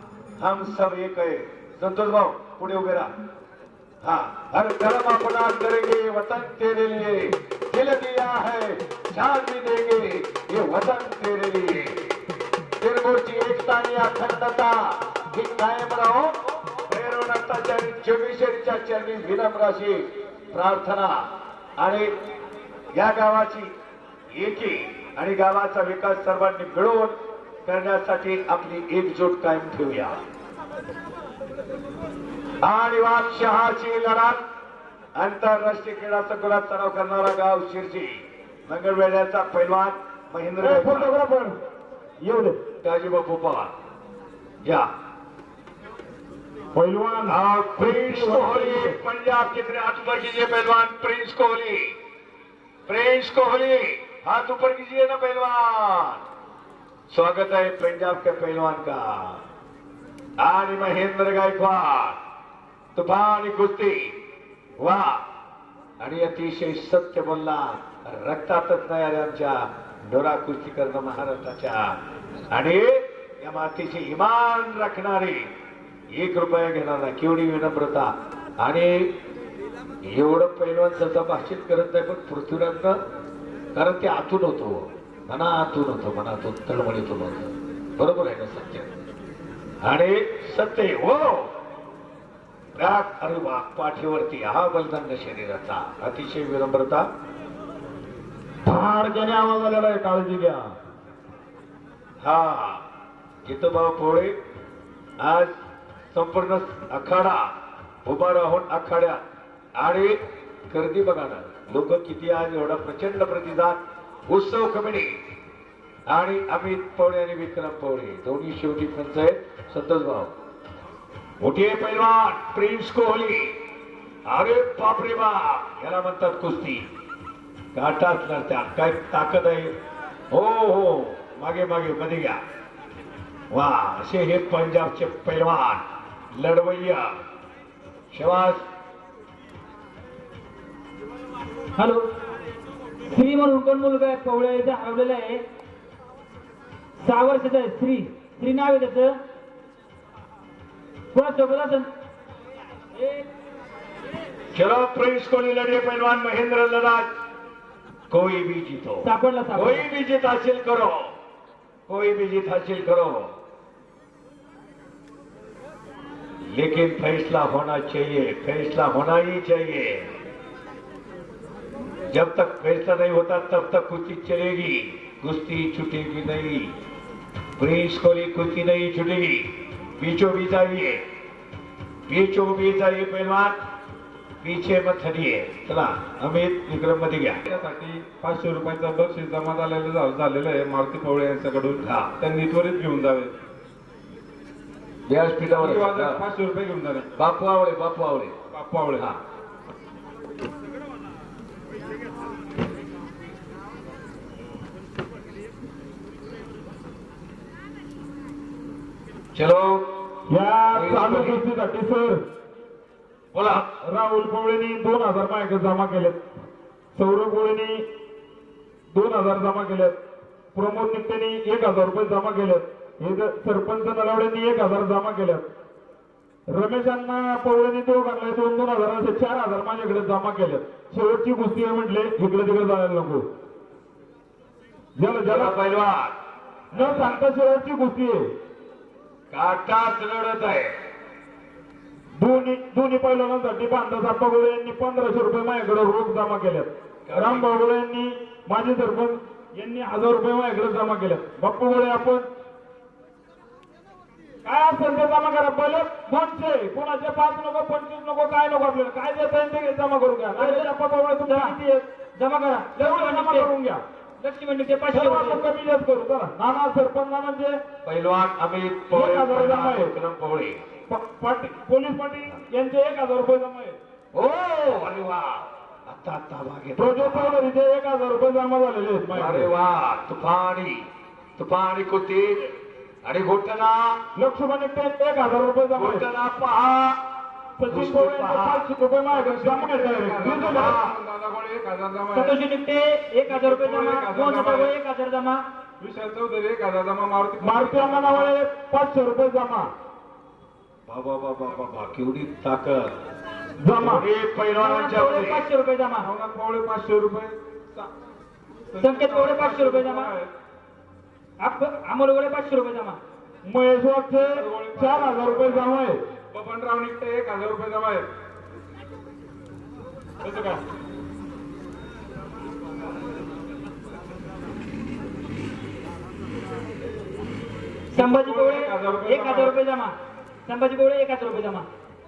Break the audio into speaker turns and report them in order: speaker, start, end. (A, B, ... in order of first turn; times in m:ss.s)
0:00.4-0:03.1 A
0:04.0-0:12.0 A
0:12.8-0:16.3 A
0:16.9-0:21.2 A
0:21.8-0:22.1 A
0:22.9-0:23.7 A
0:24.3-0:30.2 A
0:32.6-0:34.4 A
0:35.2-0:41.1 A
0:40.6-0:41.6 B
0:42.2-0:42.6 B
0:42.8-0:43.7 A
0:46.8-0:49.0 B
0:47.3-0:51.9 A
0:52.9-0:56.2 A
0:57.1-0:59.4 A
1:00.4-1:02.2 A
1:03.0-1:04.1 A
1:04.8-1:05.2 A
1:06.0-1:12.0 A
1:12.5-1:15.5 A
1:16.1-1:19.1 A
1:20.1-1:23.0 A
1:23.8-1:28.9 A
1:29.8-1:31.5 A
1:32.8-1:37.1 A
1:38.6-1:40.7 B
1:42.2-1:42.8 A
1:43.4-1:44.4 A
1:45.2-1:45.5 A
1:46.1-1:47.5 A
1:48.0-1:49.2 A
1:49.8-1:55.2 A
1:56.1-2:00.3 A
2:01.4-2:03.5 A
2:04.3-2:06.8 A
2:07.7-2:09.7 A
2:10.3-2:12.4 A
2:13.5-2:15.8 A
2:16.3-2:17.1 A
2:18.1-2:18.6 A
2:21.8-2:22.0 C
2:23.1-2:25.4 C
2:27.0-2:29.2 C
2:31.1-2:31.9 C
2:33.0-2:33.3 C
2:34.5-2:37.1 A
2:38.1-2:41.1 A
2:39.0-2:39.8 C
2:41.9-2:43.3 A
2:46.5-2:50.1 A
2:52.1-2:56.7 A
2:57.6-3:01.0 A
3:02.1-3:03.6 A
3:04.4-3:07.4 A
3:07.5-3:13.3 D
3:11.8-3:12.1 A
3:15.1-3:16.2 A
3:15.5-3:17.1 D
3:17.2-3:18.4 A
3:18.5-3:19.1 D
3:29.3-3:29.8 A
3:30.3-3:32.2 B
3:30.7-3:31.4 A
3:33.3-3:33.7 A
3:33.8-3:36.2 B
3:36.9-3:37.8 B
3:38.9-3:40.0 B
3:40.6-3:45.4 B
3:46.5-3:53.2 B
3:55.0-3:55.6 B
3:55.3-3:56.2 A
3:56.7-3:57.2 A
3:56.7-3:58.3 B
3:59.3-4:00.7 A
4:02.2-4:12.3 B
4:07.1-4:07.5 A
4:14.4-4:21.8 B
4:20.4-4:20.7 C
4:21.3-4:21.6 C
4:22.2-4:23.5 C
4:22.8-4:23.8 B
4:24.2-4:25.4 C
4:24.9-4:27.6 B
4:27.8-4:30.6 A
4:28.9-4:29.9 B
4:30.9-4:33.8 B
4:34.1-4:37.4 A
4:36.8-4:39.5 B
4:39.1-4:40.8 A
4:41.4-4:42.5 A
4:43.0-4:44.0 A
4:44.2-4:46.0 B
4:45.8-4:47.0 A
4:47.6-4:50.8 B
4:47.7-4:48.7 A
4:49.1-4:52.4 D
4:50.3-4:51.0 A
4:52.1-4:55.4 C
4:53.3-4:54.7 D
4:55.8-4:58.3 D
4:57.4-4:59.7 B
5:00.9-5:02.9 A
5:03.6-5:04.0 B
5:03.8-5:05.4 A
5:04.6-5:06.1 C
5:06.0-5:07.9 D
5:08.7-5:10.3 D
5:08.8-5:10.1 C
5:11.4-5:13.0 C
5:13.4-5:16.0 B
5:14.2-5:15.8 D
5:16.3-5:18.1 D
5:20.2-5:20.6 D
5:27.9-5:30.0 C
5:28.0-5:29.6 D
5:30.5-5:31.7 C